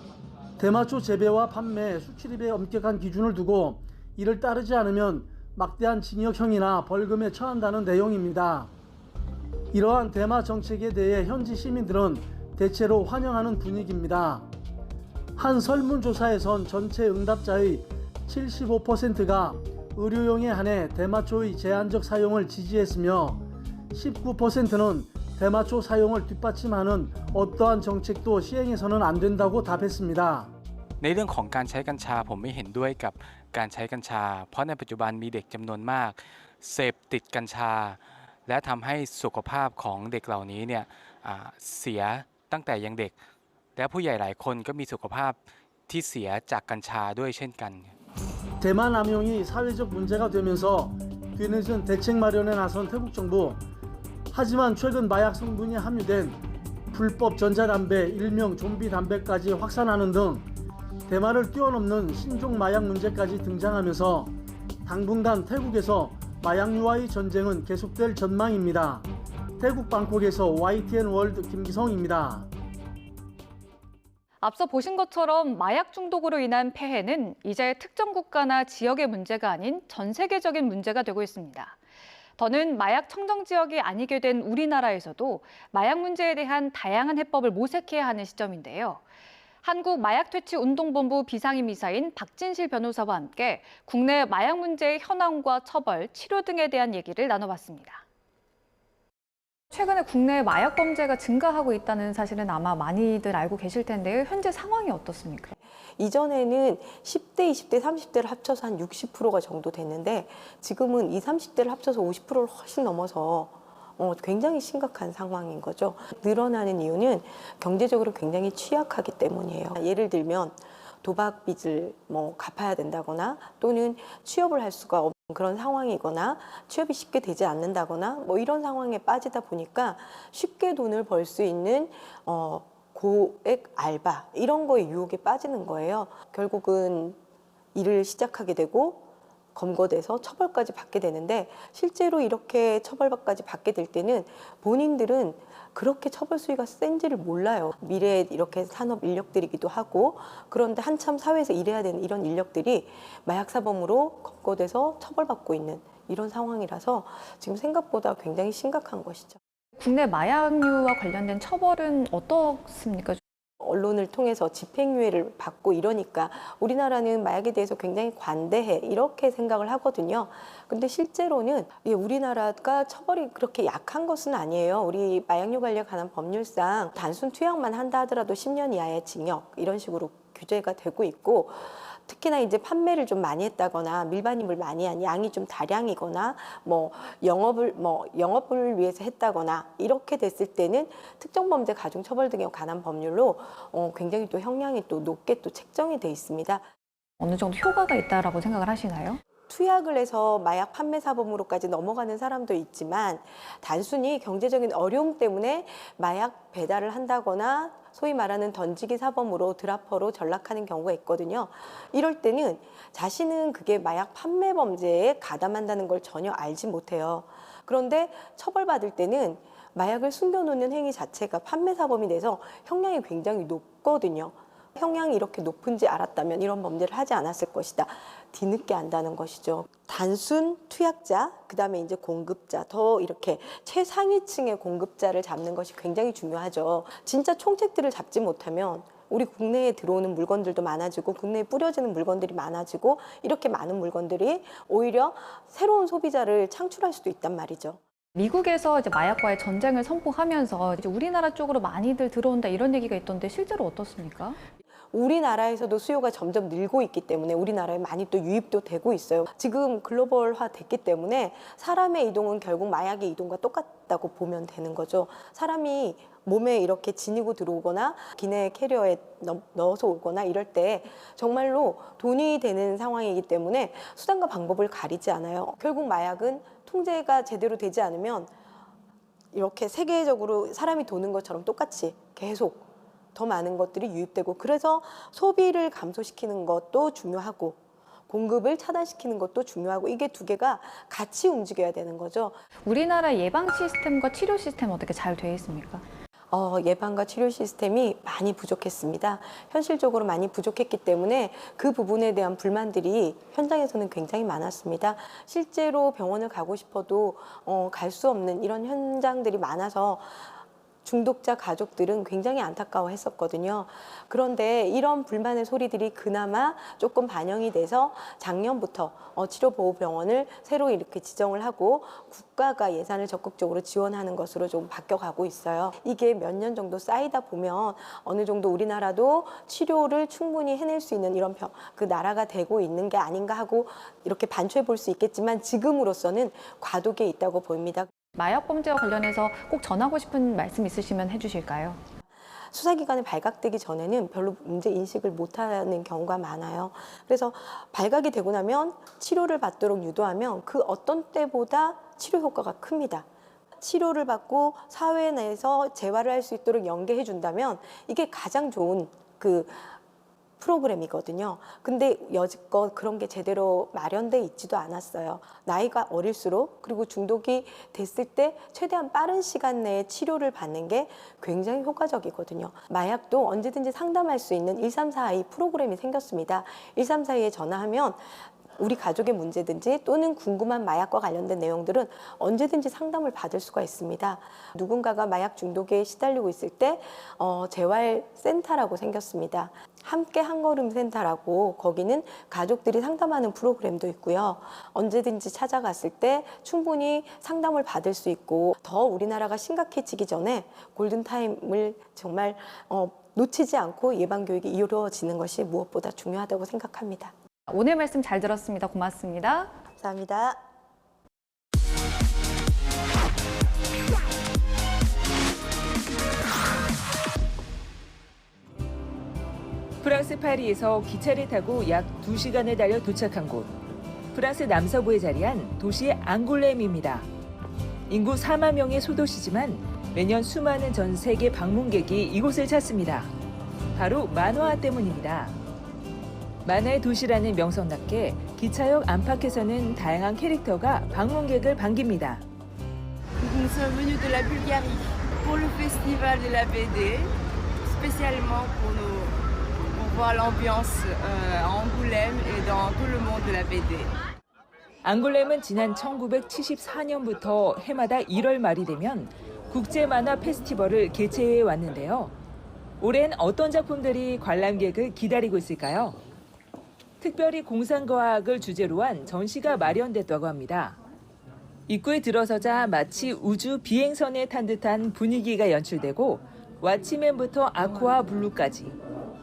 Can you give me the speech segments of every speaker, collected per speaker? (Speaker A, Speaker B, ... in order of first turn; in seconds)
Speaker A: 0.6-8.7, 9.7-14.5, 15.4-23.4, 23.9-30.5, 48.6-53.6, 54.3-56.4, 56.9-60.5, 61.1-64.3, 64.8-69.0, 69.6-72.5
Speaker B: 31.0-43.2, 43.8-47.9
Speaker C: 74.4-81.8, 82.4-89.0, 89.6-98.0, 99.7-105.6, 159.8-163.2, 197.2-199.2, 248.1-254.4, 292.6-295.8, 338.1-341.8, 407.5-409.5
Speaker D: 106.0-137.2, 137.7-159.4, 163.6-196.7, 199.5-247.8, 254.9-278.3, 279.3-292.4, 296.3-337.9, 342.5-353.1, 353.6-359.8, 360.4-407.1, 409.8-410.4
Speaker E: 419.8-423.5, 424.1-427.1, 427.9-433.1, 433.7-435.3, 436.4-442.2, 454.8-462.1, 462.8-466.0, 467.0-470.8, 471.7-478.8
Speaker F: 443.2-447.1, 447.8-449.1, 449.8-453.9